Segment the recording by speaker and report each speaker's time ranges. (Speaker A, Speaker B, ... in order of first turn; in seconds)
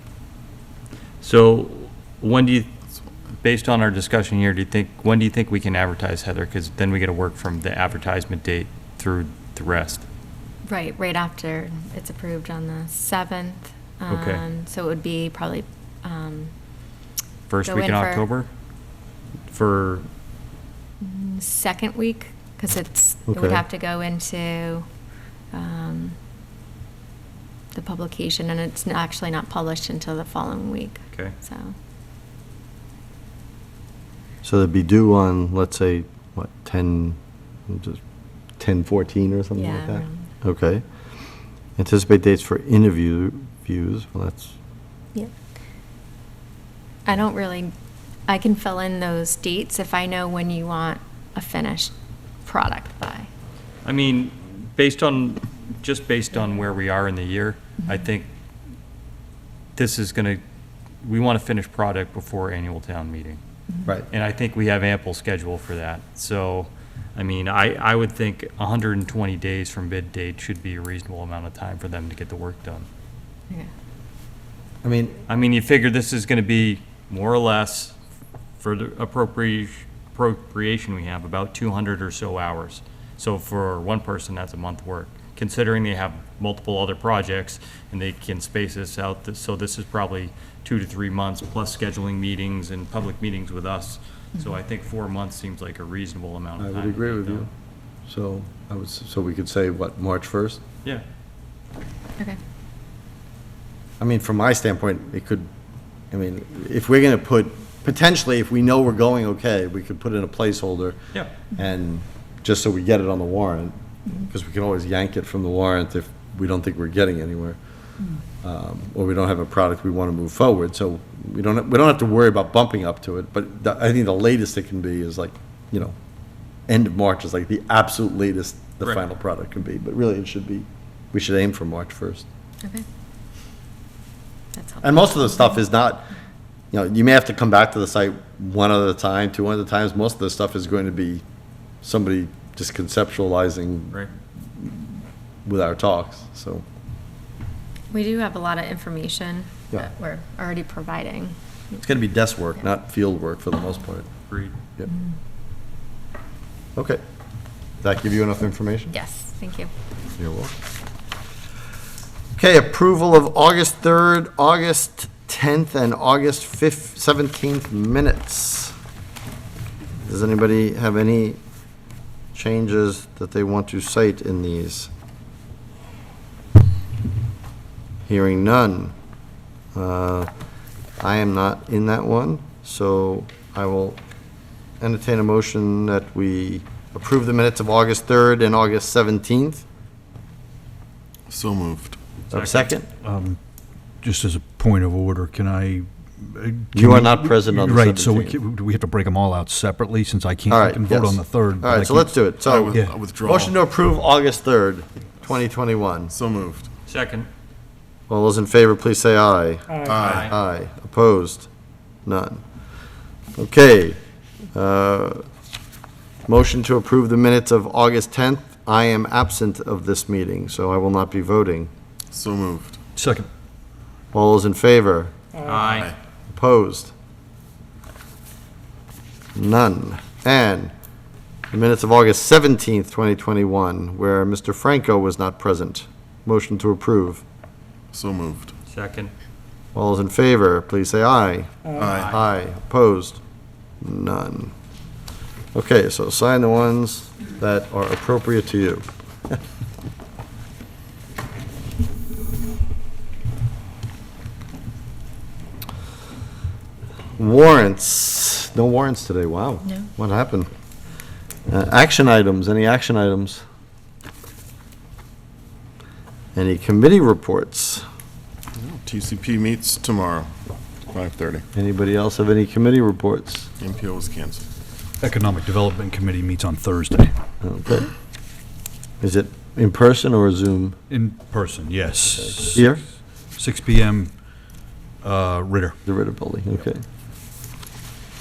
Speaker A: 1.2-2.7, 3.4-10.0, 14.1-14.4, 17.5-18.5, 19.5-20.1, 53.9-58.3, 59.8-60.4, 61.0-63.4, 64.1-72.9, 75.3-78.0, 78.6-97.5, 154.3-154.6, 192.3-192.7, 206.9-207.3, 209.9-210.3, 225.4-225.9, 238.7-239.1
Speaker B: 10.7-16.5, 17.6-18.3, 21.0-24.9, 25.5-26.2, 27.7-31.7, 39.6-40.3, 47.1-47.7, 48.3-51.9, 52.5-53.3, 134.6-135.4, 147.9-151.8, 158.9-159.7
Speaker C: 23.3-23.6, 34.4-38.0, 38.6-40.8, 41.8-44.5, 74.8-75.2, 96.6-97.5, 98.1-100.6, 104.0-105.5, 106.1-111.0, 111.5-117.6, 118.4-126.0, 126.7-132.3, 134.8-136.1, 136.7-141.2, 141.8-144.0, 145.4-146.6, 151.8-154.1, 156.8-157.0, 157.8-158.9, 160.2-160.5, 162.4-168.7, 170.0-171.4, 172.3-174.9, 178.1-178.9, 179.7-180.3, 181.0-184.0, 184.8-189.7, 192.3-192.9, 196.7-198.4, 200.5-206.1, 208.1-211.5, 212.1-212.4, 213.4-214.0, 214.5-215.3, 216.3-221.7, 224.1-225.1, 226.3-226.9, 229.3-230.7, 231.5-237.2, 239.8-243.2, 243.8-244.5, 245.6-249.4, 257.2-260.5, 261.5-263.4, 266.4-267.9, 271.5-273.5, 277.4-277.9, 279.0-280.8, 282.5-282.8, 285.9-286.8
Speaker D: 191.3-192.0, 202.4-203.6, 206.1-206.7, 209.8-210.4, 222.1-222.8, 225.6-226.0, 237.9-238.5, 241.8-242.2, 268.6-270.3, 270.9-271.4, 273.6-274.4
Speaker E: 193.0-193.4, 194.0-202.2, 223.0-223.3, 275.0-277.1, 280.9-284.2, 285.0-285.8